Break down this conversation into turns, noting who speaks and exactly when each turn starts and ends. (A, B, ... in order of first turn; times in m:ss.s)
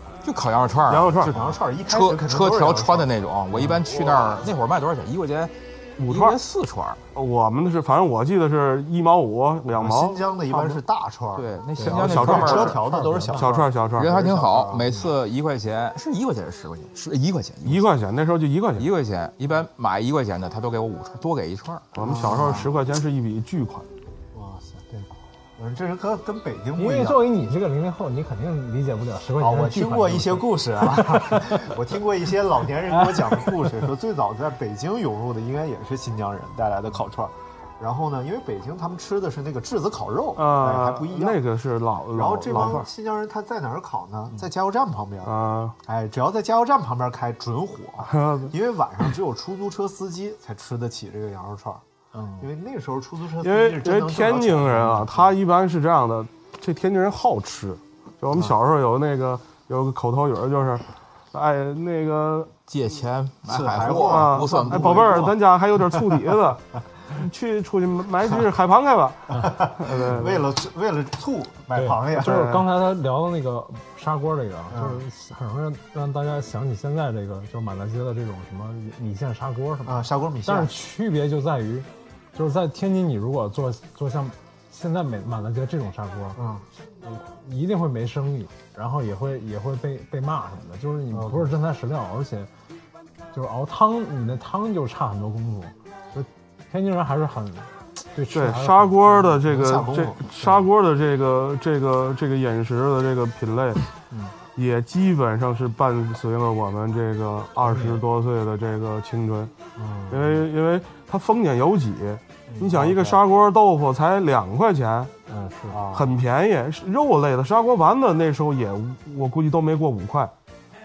0:00.2-0:05.5 A
0:00.9-0:01.3 B
0:01.3-0:04.1 C
0:06.0-0:06.4 B
0:06.1-0:07.0 A
0:07.1-0:10.2 B
0:09.7-0:15.0 C
0:11.3-0:12.8 A
0:11.8-0:13.5 D
0:11.8-0:12.7 B
0:13.4-0:14.2 B
0:14.0-0:17.9 A
0:17.6-0:18.9 B
0:18.8-0:21.9 A
0:21.9-0:23.9 B
0:22.0-0:22.7 C
0:24.3-0:27.3 C
0:26.8-0:31.7 D
0:29.4-0:41.4 C
0:32.9-0:33.7 D
0:40.4-0:42.9 B
0:42.1-0:51.8 C
0:45.2-0:45.7 B
0:48.0-0:48.5 B
0:52.1-0:52.5 D
0:52.4-0:55.3 C
0:53.4-1:02.5 B
1:02.7-1:05.4 A
1:03.5-1:05.3 C
1:03.9-1:10.4 B
1:09.4-1:12.5 C
1:11.7-1:26.4 D
1:12.2-1:12.7 B
1:14.7-1:15.0 C
1:19.8-1:20.7 C
1:26.4-1:26.6 C
1:27.0-1:32.5 D
1:31.1-1:31.5 C
1:33.3-1:39.3 D
1:38.3-1:43.8 B
1:39.4-1:40.6 C
1:44.6-1:49.5 B
1:47.6-1:48.0 D
1:49.8-1:50.4 C
1:50.1-1:55.1 B
1:52.5-1:53.2 C
1:55.3-1:55.8 D
1:55.7-1:56.1 C
1:55.9-2:00.3 B